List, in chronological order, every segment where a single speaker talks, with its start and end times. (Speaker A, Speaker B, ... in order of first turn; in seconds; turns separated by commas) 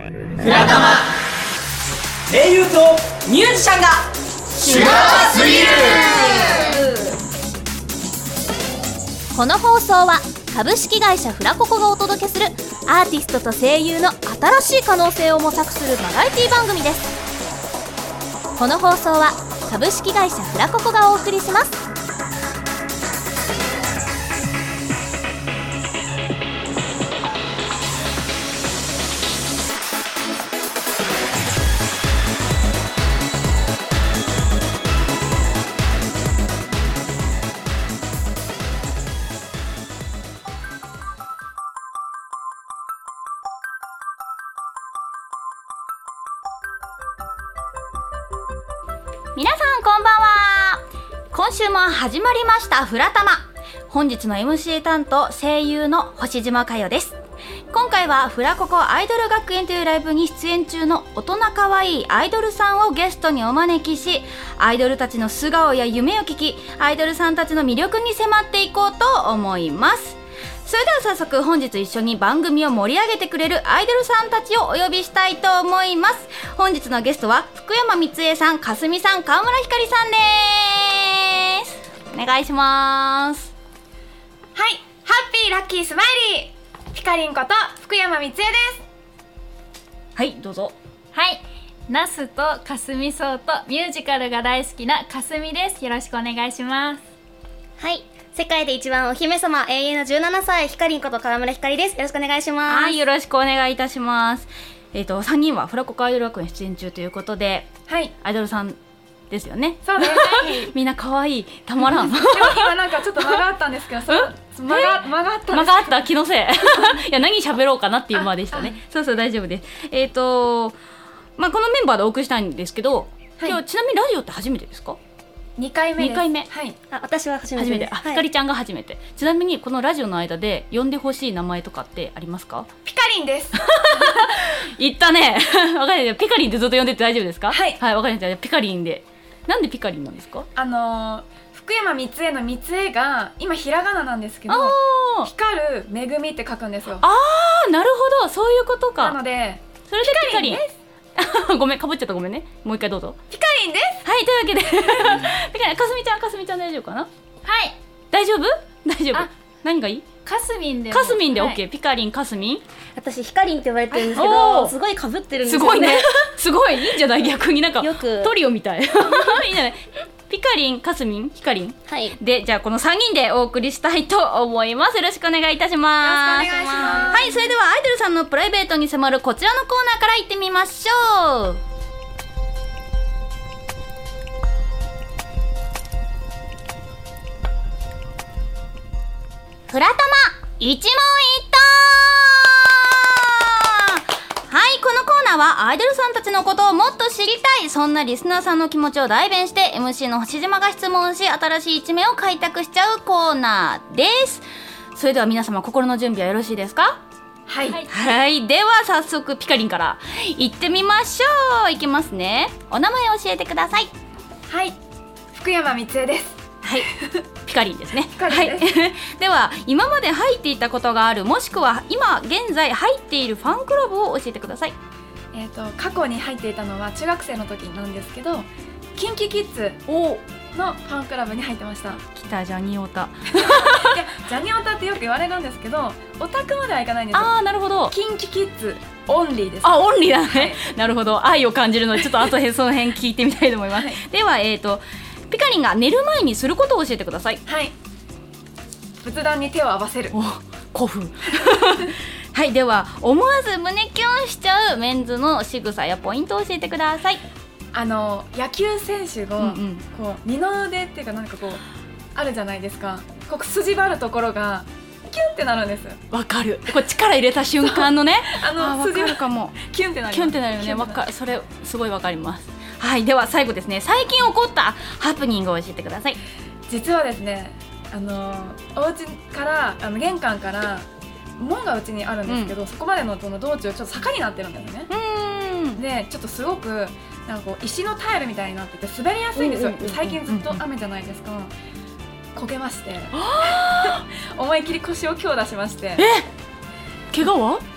Speaker A: 0.4-1.1, Speaker A: 2.3-6.8, Speaker B: 5.8-6.6, Speaker B: 9.3-17.1, Speaker B: 18.6-21.8, Speaker C: 49.4-57.2, Speaker C: 57.7-83.5, Speaker D: 84.5-88.8, Speaker C: 90.2-90.8, Speaker E: 91.1-97.0, Speaker F: 97.8-103.0, Speaker C: 102.7-108.8, Speaker D: 107.9-108.1, Speaker C: 109.3-113.4, Speaker D: 109.8-110.7, Speaker D: 111.8-116.0, Speaker C: 114.1-120.8, Speaker D: 118.1-118.8, Speaker C: 121.4-125.0, Speaker D: 125.6-126.8, Speaker C: 126.0-126.5, Speaker F: 126.9-128.2, Speaker C: 127.6-132.7, Speaker D: 132.8-134.2, Speaker C: 133.6-140.5, Speaker D: 137.5-137.8, Speaker D: 140.6-147.1, Speaker C: 144.5-145.3, Speaker C: 147.0-149.2, Speaker D: 149.0-150.7, Speaker C: 149.9-150.6, Speaker C: 151.2-153.2, Speaker D: 153.3-154.0, Speaker C: 154.1-157.1, Speaker D: 154.9-155.2, Speaker E: 157.4-157.8, Speaker C: 158.1-160.1, Speaker E: 160.2-161.6, Speaker C: 160.9-162.6, Speaker F: 162.9-166.1, Speaker C: 164.2-164.8, Speaker C: 165.4-181.6, Speaker F: 167.8-168.3, Speaker F: 171.9-172.2, Speaker D: 176.0-177.4, Speaker F: 176.1-177.2, Speaker C: 189.7-207.0, Speaker D: 207.5-207.8, Speaker E: 207.7-208.0, Speaker C: 207.9-213.9, Speaker D: 214.5-214.8, Speaker D: 215.3-216.8, Speaker C: 216.6-216.9, Speaker C: 217.4-224.8, Speaker D: 218.1-218.7, Speaker D: 225.3-229.8, Speaker C: 229.9-230.2, Speaker D: 230.5-232.0, Speaker C: 232.1-233.9, Speaker D: 233.4-237.3, Speaker C: 237.1-237.9, Speaker D: 237.9-240.6, Speaker C: 239.6-247.4, Speaker D: 247.5-247.7, Speaker D: 249.0-250.2, Speaker C: 250.1-257.2, Speaker D: 257.7-261.6, Speaker C: 259.4-259.9, Speaker D: 262.1-266.0, Speaker C: 266.1-276.2, Speaker D: 267.7-271.0, Speaker D: 276.7-284.9, Speaker C: 282.3-282.6, Speaker C: 284.9-285.8, Speaker D: 285.8-291.5, Speaker C: 289.4-290.6, Speaker D: 292.4-296.1, Speaker C: 293.1-294.1, Speaker C: 296.0-296.3, Speaker C: 297.1-297.6